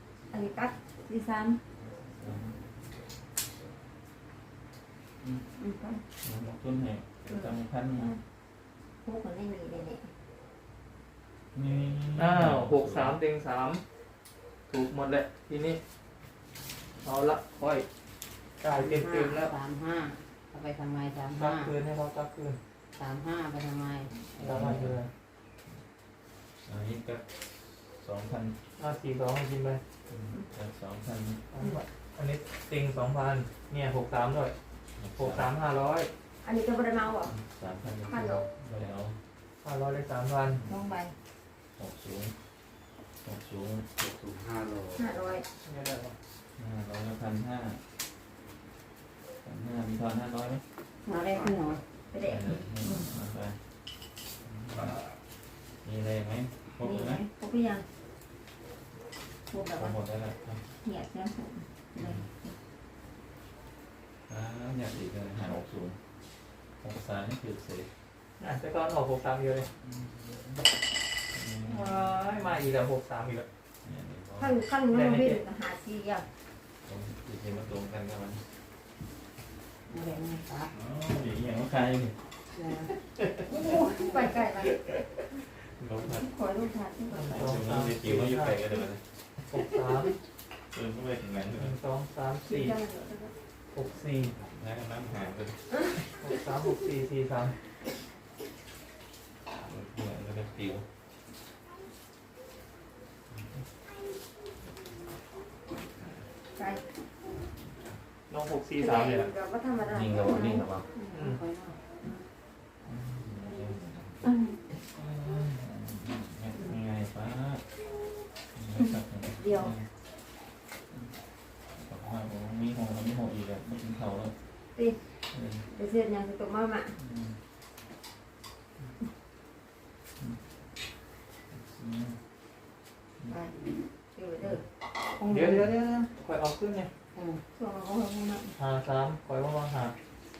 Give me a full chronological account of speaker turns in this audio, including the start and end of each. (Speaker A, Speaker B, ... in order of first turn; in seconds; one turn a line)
Speaker A: 0.3-1.6
Speaker B: 1.8-2.6
Speaker A: 5.6-6.0
Speaker B: 6.2-8.1
Speaker A: 7.3-8.2
Speaker A: 9.0-10.1
Speaker B: 11.5-13.2
Speaker C: 12.2-13.8
Speaker C: 14.7-15.8
Speaker C: 17.0-17.9
Speaker C: 18.6-19.5
Speaker D: 18.7-21.7
Speaker C: 21.4-22.6
Speaker D: 22.9-24.7
Speaker B: 24.4-25.0
Speaker C: 24.4-25.1
Speaker B: 26.6-28.6
Speaker C: 28.8-29.8
Speaker B: 30.1-31.4
Speaker C: 31.5-34.5
Speaker B: 35.0-35.5
Speaker C: 35.2-36.1
Speaker A: 36.4-37.3
Speaker B: 37.2-39.2
Speaker A: 38.1-38.5
Speaker C: 39.6-40.6
Speaker B: 40.5-40.8
Speaker A: 40.6-41.1
Speaker B: 41.8-42.3
Speaker B: 43.2-43.9
Speaker E: 44.0-45.3
Speaker A: 45.0-45.4
Speaker C: 45.6-46.1
Speaker B: 46.6-47.8
Speaker B: 49.4-50.6
Speaker D: 51.0-51.8
Speaker E: 51.1-51.7
Speaker A: 52.1-53.1
Speaker B: 52.2-53.6
Speaker B: 54.4-55.0
Speaker B: 55.8-57.2
Speaker A: 56.8-57.8
Speaker A: 59.5-60.0
Speaker B: 59.7-60.6
Speaker A: 60.8-62.5
Speaker B: 62.0-62.2
Speaker B: 64.3-66.0
Speaker B: 66.8-67.9
Speaker C: 68.4-69.7
Speaker B: 69.8-70.7
Speaker B: 71.3-72.5
Speaker C: 71.7-73.5
Speaker B: 73.8-74.6
Speaker A: 74.4-76.2
Speaker C: 74.9-75.4
Speaker B: 76.8-78.4
Speaker D: 79.9-80.7
Speaker B: 80.7-82.3
Speaker D: 82.5-82.9
Speaker A: 83.4-84.8
Speaker C: 85.7-86.3
Speaker A: 86.0-87.2
Speaker C: 87.1-88.6
Speaker B: 87.1-89.0
Speaker C: 89.4-90.2
Speaker B: 90.7-91.8
Speaker C: 91.6-92.8
Speaker A: 92.4-93.3
Speaker C: 93.7-94.4
Speaker B: 94.4-96.1
Speaker C: 96.2-97.6
Speaker B: 99.5-100.8
Speaker A: 106.6-106.8
Speaker C: 108.3-109.3
Speaker A: 108.8-110.6
Speaker B: 109.9-110.8
Speaker D: 110.9-111.8
Speaker C: 111.1-111.4
Speaker B: 112.8-114.3
Speaker B: 114.9-117.6
Speaker B: 118.5-119.8
Speaker A: 119.4-119.7
Speaker B: 121.7-124.3
Speaker B: 125.3-125.6
Speaker A: 125.7-127.0
Speaker B: 127.0-127.3
Speaker B: 131.5-132.2
Speaker A: 133.3-133.5
Speaker A: 134.1-134.6
Speaker D: 135.2-135.7
Speaker C: 135.3-136.9
Speaker D: 137.1-137.4
Speaker A: 137.5-138.5
Speaker C: 138.6-139.9